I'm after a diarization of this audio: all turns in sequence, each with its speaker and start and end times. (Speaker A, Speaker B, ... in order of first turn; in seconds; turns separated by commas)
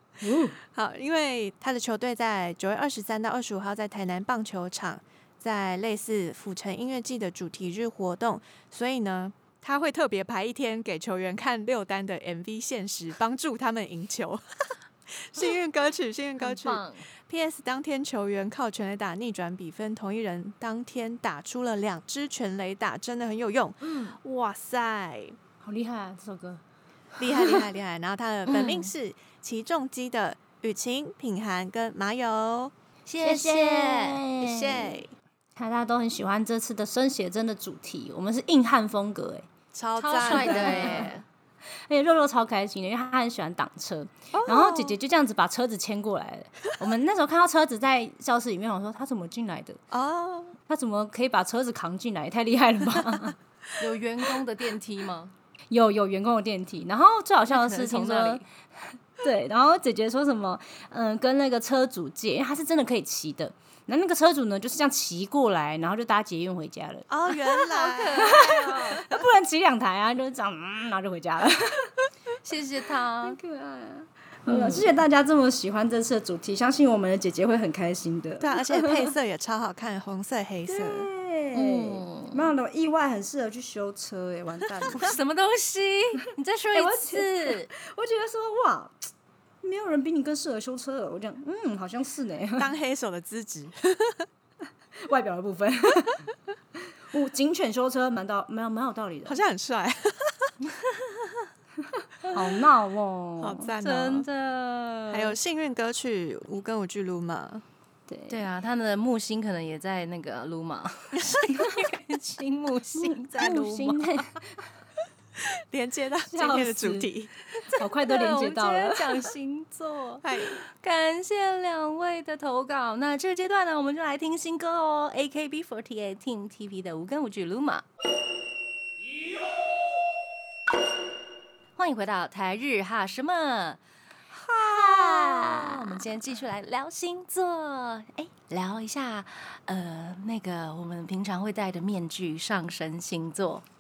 Speaker A: 0.2-0.6, Speaker B: 0.6-25.4, Speaker C: 16.4-17.1, Speaker C: 23.8-24.2, Speaker A: 25.6-26.6, Speaker B: 27.2-32.7, Speaker A: 27.2-27.6, Speaker C: 28.5-28.9, Speaker C: 33.1-34.2, Speaker A: 33.2-35.0, Speaker B: 34.4-35.1, Speaker A: 35.6-39.5, Speaker B: 39.7-41.1, Speaker C: 40.0-41.2, Speaker A: 40.2-41.1, Speaker A: 41.9-49.8, Speaker B: 44.3-45.0, Speaker B: 49.9-50.6, Speaker A: 50.7-53.4, Speaker C: 53.8-55.3, Speaker A: 55.7-58.4, Speaker C: 57.5-58.5, Speaker A: 59.2-67.6, Speaker B: 67.1-69.2, Speaker C: 67.7-69.0, Speaker A: 68.2-71.9, Speaker C: 72.4-73.4, Speaker A: 73.2-79.1, Speaker C: 74.5-75.0, Speaker B: 78.4-81.1, Speaker A: 80.7-85.2, Speaker C: 81.5-82.5, Speaker C: 84.9-87.7, Speaker A: 86.7-88.9, Speaker A: 89.6-92.7, Speaker B: 92.6-94.3, Speaker A: 95.0-96.3, Speaker A: 97.1-99.4, Speaker B: 99.3-100.5, Speaker A: 102.0-103.7, Speaker B: 103.4-104.3, Speaker C: 103.8-105.4, Speaker B: 105.1-107.6, Speaker A: 108.1-108.4, Speaker C: 108.3-113.5, Speaker B: 111.2-111.5, Speaker A: 113.0-114.6, Speaker B: 113.3-114.0, Speaker B: 115.7-117.3, Speaker A: 116.3-117.1, Speaker C: 117.5-127.8, Speaker A: 117.7-119.3, Speaker B: 120.2-120.6, Speaker C: 131.8-133.8, Speaker A: 134.5-136.0, Speaker C: 134.5-143.7